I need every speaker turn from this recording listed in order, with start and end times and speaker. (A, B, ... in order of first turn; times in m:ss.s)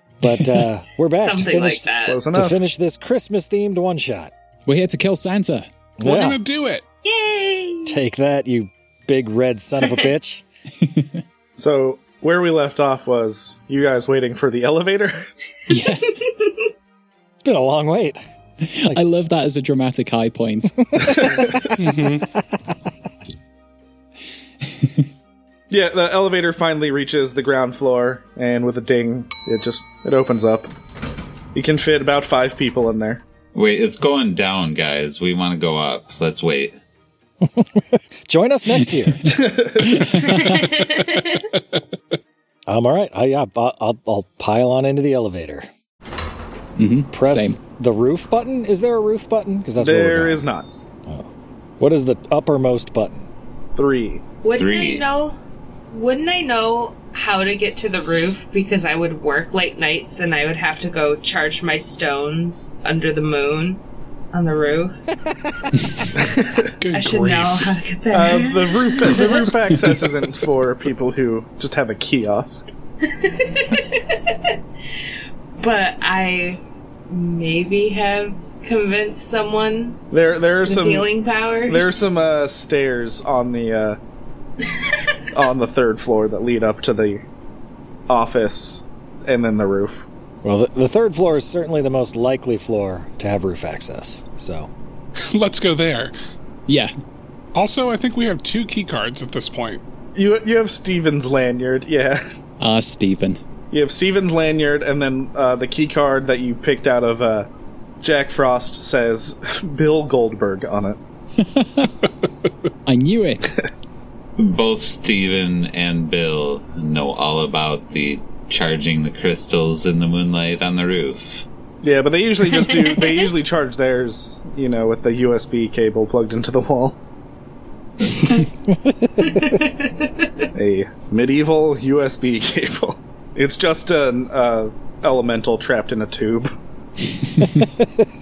0:00.2-0:04.3 A
0:01.0-0:02.2 B
0:02.0-0:02.6 C
0:04.7-0:05.7 D
0:06.0-0:06.4 A
0:06.0-0:06.8 E
0:07.0-0:08.0 B
0:07.9-0:10.4 A
0:09.8-0:10.1 B
0:10.8-0:11.2 D
0:11.6-0:15.2 C
0:15.7-0:16.1 D
0:15.9-0:16.6 B
0:17.4-0:18.2 A
0:18.6-0:20.8 D
0:20.9-0:21.4 A
0:21.0-0:21.8 C
0:21.8-0:22.2 E
0:24.6-0:25.1 D
0:25.7-0:30.7 C
0:31.6-0:33.2 C
0:33.5-0:36.8 F
0:37.4-0:39.3 A
0:38.8-0:40.8 D
0:39.2-0:40.1 C
0:40.3-0:41.5 B
0:42.7-0:45.7 A
0:46.8-0:47.6 D
0:47.1-0:50.4 A
0:49.8-0:50.7 C
0:51.8-0:53.3 A
0:53.8-0:54.2 C
0:54.4-0:55.4 B
0:54.6-0:55.0 F
0:55.9-1:03.8 B
1:04.3-1:05.0 B
1:06.2-1:06.7 C
1:06.8-1:07.8 E
1:06.9-1:09.5 B
1:08.1-1:12.7 C
1:09.7-1:10.0 D
1:13.0-1:14.6 B
1:15.6-1:20.0 B
1:20.1-1:21.1 C
1:20.6-1:22.0 B
1:21.7-1:24.0 C
1:24.6-1:25.0 B
1:25.3-1:27.2 C
1:28.1-1:30.0 C
1:30.4-1:34.7 A
1:35.3-1:36.1 E
1:36.7-1:36.9 D
1:37.5-1:39.8 E
1:40.2-1:42.2 C
1:42.6-1:43.4 D
1:43.7-1:47.5 C
1:48.0-1:51.0 C
1:51.4-1:51.9 D
1:52.9-1:53.6 D
1:54.4-2:01.4 F
2:01.8-2:07.0 C
2:02.5-2:03.3 B
2:08.1-2:08.5 B
2:08.8-2:09.4 A
2:09.2-2:10.5 B
2:10.6-2:16.5 C
2:17.4-2:17.9 A